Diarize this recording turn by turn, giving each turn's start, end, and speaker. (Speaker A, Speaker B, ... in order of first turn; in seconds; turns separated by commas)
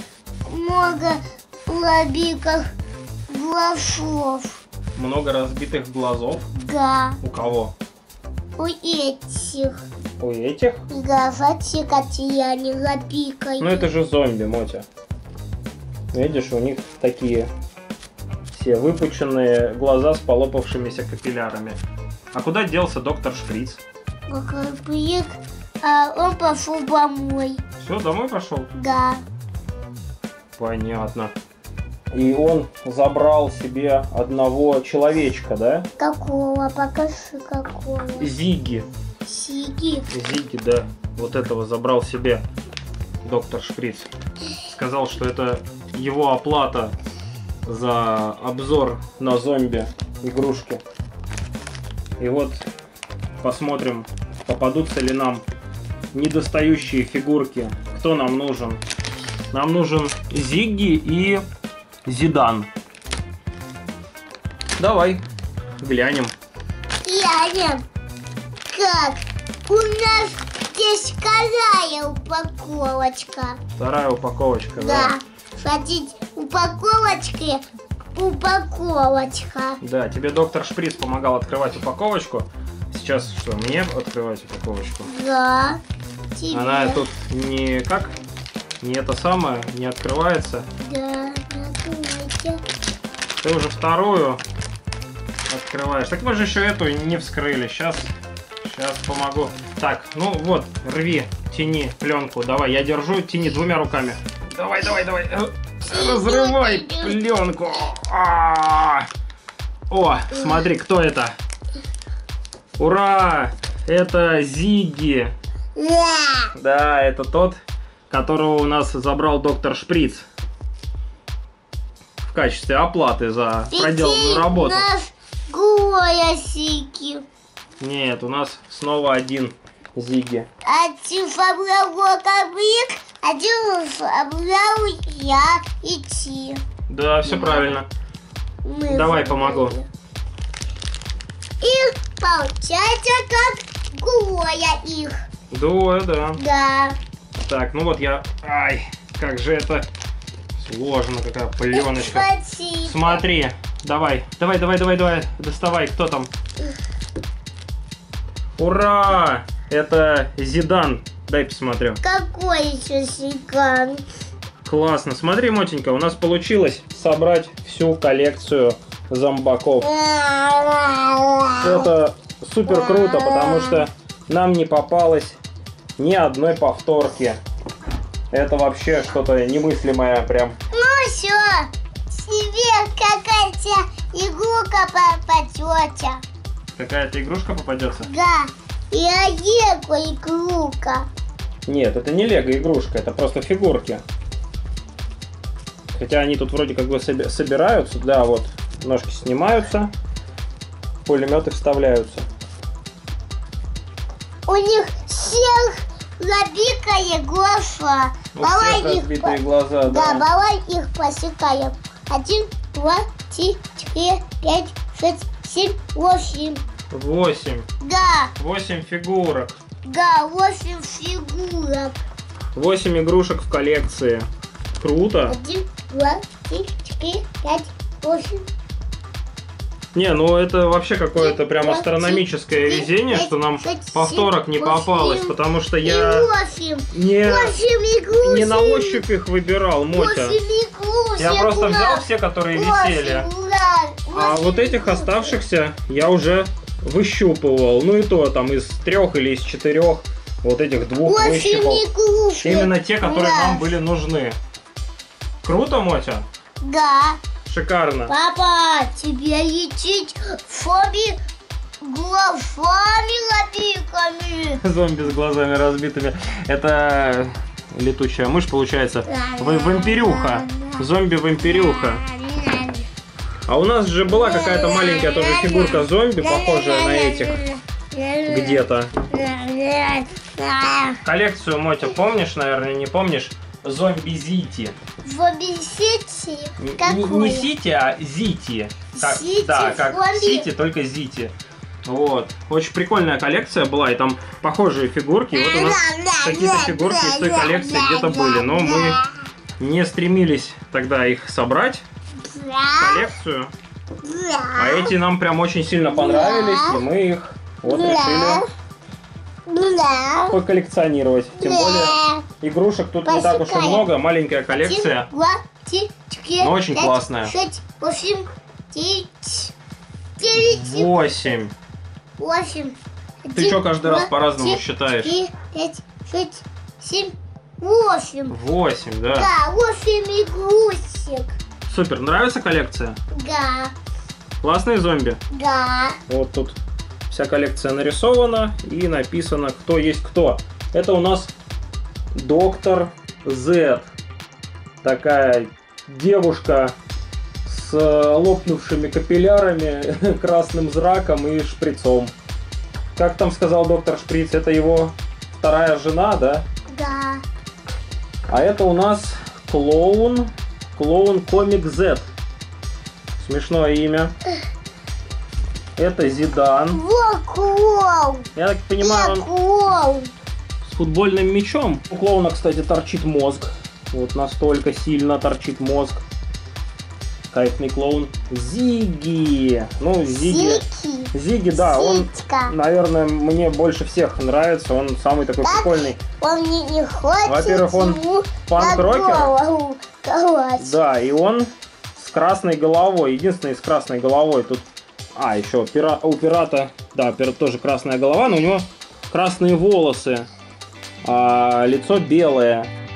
Speaker A: 0.5-2.7, Speaker A: 3.3-4.6, Speaker B: 5.0-6.5, Speaker A: 6.5-7.2, Speaker B: 7.2-7.7, Speaker A: 8.6-9.8, Speaker B: 10.2-10.8, Speaker A: 10.9-13.9, Speaker B: 13.6-14.9, Speaker B: 16.1-17.5, Speaker B: 18.5-21.8, Speaker B: 22.3-23.8, Speaker A: 24.3-27.6, Speaker B: 27.8-28.7, Speaker A: 28.7-29.2, Speaker B: 30.6-31.3, Speaker B: 32.1-35.9, Speaker A: 36.0-38.3, Speaker B: 38.2-38.9, Speaker A: 39.2-40.1, Speaker B: 40.1-42.4, Speaker B: 43.2-44.1, Speaker B: 44.7-47.0, Speaker B: 47.7-50.8, Speaker B: 52.2-52.6, Speaker B: 53.4-55.4, Speaker B: 56.1-58.8, Speaker B: 59.5-61.4, Speaker B: 62.1-62.7, Speaker B: 64.8-65.2, Speaker B: 65.8-66.3, Speaker A: 67.0-67.8, Speaker A: 68.7-73.6, Speaker B: 73.8-75.1, Speaker A: 74.8-77.6, Speaker A: 78.2-79.8, Speaker B: 79.8-85.1, Speaker A: 85.1-85.8, Speaker A: 86.3-87.0, Speaker B: 86.5-88.2, Speaker B: 88.8-90.7, Speaker A: 90.8-92.6, Speaker B: 93.4-94.4, Speaker B: 95.5-109.1, Speaker A: 105.8-107.2, Speaker B: 109.9-111.3, Speaker B: 112.8-115.3, Speaker A: 115.8-116.5, Speaker B: 116.5-120.3, Speaker B: 122.2-124.9, Speaker A: 123.7-127.2, Speaker B: 127.8-130.5, Speaker A: 130.7-136.6, Speaker B: 136.9-137.9, Speaker A: 137.3-137.8, Speaker A: 138.6-139.9, Speaker B: 138.9-139.8, Speaker A: 141.6-145.2, Speaker B: 145.5-146.4, Speaker A: 146.4-147.0, Speaker B: 147.4-149.9, Speaker B: 150.6-152.3, Speaker A: 151.7-153.2, Speaker B: 152.8-156.3, Speaker B: 158.6-162.0, Speaker A: 162.0-164.0, Speaker B: 164.7-169.9, Speaker A: 169.8-171.9, Speaker B: 171.5-175.4, Speaker A: 172.7-173.8, Speaker B: 176.0-177.4, Speaker B: 178.3-180.6, Speaker A: 180.7-186.2, Speaker B: 186.8-188.1, Speaker A: 188.1-191.1, Speaker B: 191.7-194.0, Speaker B: 195.9-199.9, Speaker B: 201.1-202.2, Speaker A: 204.5-209.4, Speaker B: 208.3-210.3, Speaker A: 209.9-216.6, Speaker B: 216.9-217.7, Speaker A: 217.8-218.3, Speaker B: 218.4-219.6, Speaker A: 219.9-222.0, Speaker B: 222.6-224.3, Speaker B: 224.8-225.4, Speaker A: 225.3-228.5, Speaker B: 229.9-236.3, Speaker A: 231.2-239.1, Speaker B: 236.9-237.6, Speaker B: 238.2-240.4, Speaker A: 239.9-245.3, Speaker B: 241.2-243.3, Speaker B: 244.1-251.8, Speaker A: 251.1-253.8, Speaker B: 252.4-254.4, Speaker B: 255.4-256.2, Speaker A: 256.6-257.2, Speaker B: 257.4-258.1, Speaker A: 258.1-261.2, Speaker A: 261.8-264.6, Speaker B: 264.6-272.0, Speaker A: 269.1-270.8, Speaker A: 271.5-272.8, Speaker B: 273.5-277.4, Speaker A: 274.1-278.6, Speaker B: 278.3-278.9, Speaker A: 279.1-281.0, Speaker B: 281.0-284.8, Speaker A: 285.0-287.5, Speaker B: 286.6-291.3, Speaker A: 288.9-290.5, Speaker B: 291.9-299.0, Speaker A: 295.3-299.1, Speaker B: 299.6-301.8, Speaker A: 302.2-303.1, Speaker B: 302.8-303.5, Speaker A: 304.0-304.9, Speaker B: 304.6-308.4, Speaker A: 305.9-306.8, Speaker A: 307.6-308.4, Speaker A: 309.5-310.4, Speaker B: 310.3-315.1, Speaker A: 311.4-312.2, Speaker A: 313.1-313.9, Speaker A: 314.5-319.5, Speaker B: 316.4-317.3, Speaker A: 320.2-320.9, Speaker B: 320.4-321.5, Speaker A: 322.2-328.4, Speaker B: 323.3-325.1, Speaker B: 328.3-329.3, Speaker A: 329.2-331.3, Speaker B: 331.7-333.0, Speaker A: 333.1-333.7, Speaker B: 334.4-335.2, Speaker A: 335.3-336.0, Speaker B: 336.1-336.6, Speaker B: 337.1-341.3, Speaker B: 342.1-343.9, Speaker B: 344.8-346.8, Speaker B: 347.4-352.1, Speaker B: 353.0-356.5, Speaker A: 356.7-357.2, Speaker B: 358.3-362.1, Speaker B: 363.2-364.1, Speaker B: 365.8-366.8, Speaker A: 366.7-368.3, Speaker B: 368.4-369.3, Speaker A: 368.8-370.1, Speaker B: 370.6-376.0, Speaker B: 377.3-380.6, Speaker A: 380.1-382.5, Speaker B: 381.1-386.0, Speaker A: 385.4-390.8, Speaker B: 387.3-389.4, Speaker B: 390.6-400.3, Speaker B: 401.0-402.7